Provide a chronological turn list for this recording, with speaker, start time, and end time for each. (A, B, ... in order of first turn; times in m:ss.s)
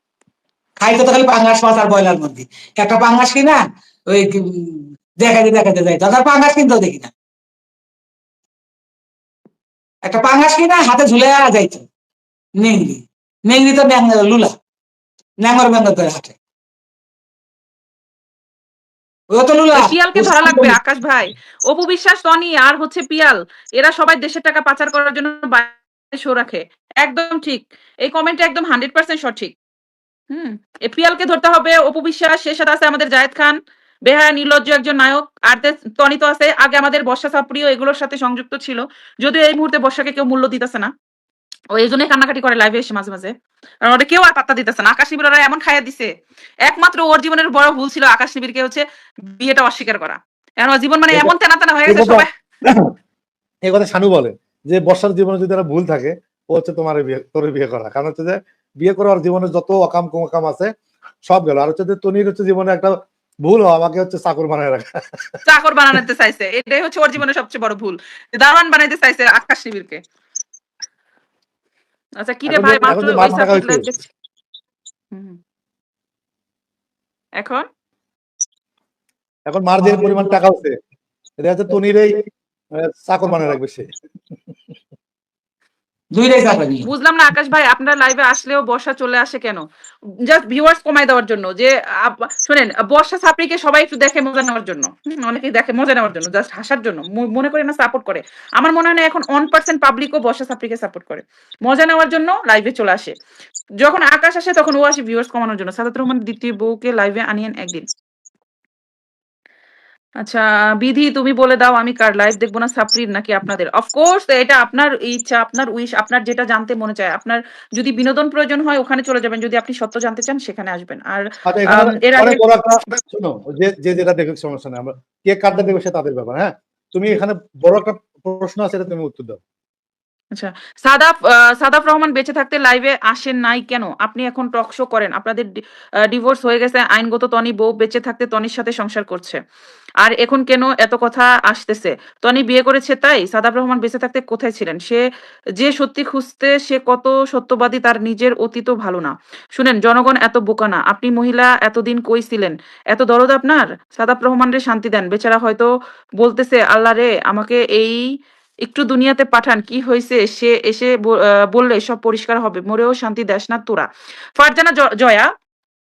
0:00.8-0:07.1 A
0:10.0-0:11.8 A
0:12.6-0:14.5 A
0:15.4-0:16.3 A
0:19.3-0:20.8 A
0:19.7-0:29.5 B
0:30.3-0:33.5 B
0:34.0-0:40.9 B
0:41.7-0:43.3 B
0:43.8-0:46.1 B
0:46.6-0:52.3 B
0:51.8-0:52.9 C
0:53.6-1:00.7 C
1:01.3-1:02.9 C
1:03.4-1:05.4 C
1:05.5-1:10.0 B
1:12.2-1:14.1 B
1:12.5-1:13.8 C
1:15.1-1:15.4 B
1:17.4-1:17.6 B
1:19.5-1:20.7 C
1:19.8-1:20.2 A
1:21.4-1:22.2 C
1:22.7-1:23.8 C
1:26.1-1:26.9 A
1:26.8-1:29.6 B
1:30.2-1:43.1 B
1:43.8-1:47.8 B
1:50.2-2:02.4 B
2:01.5-2:09.4 C
2:10.3-2:15.5 B
2:16.1-2:19.4 B
2:20.0-2:25.0 B
2:25.6-2:38.0 B
2:38.6-2:43.9 B
2:44.4-2:45.3 B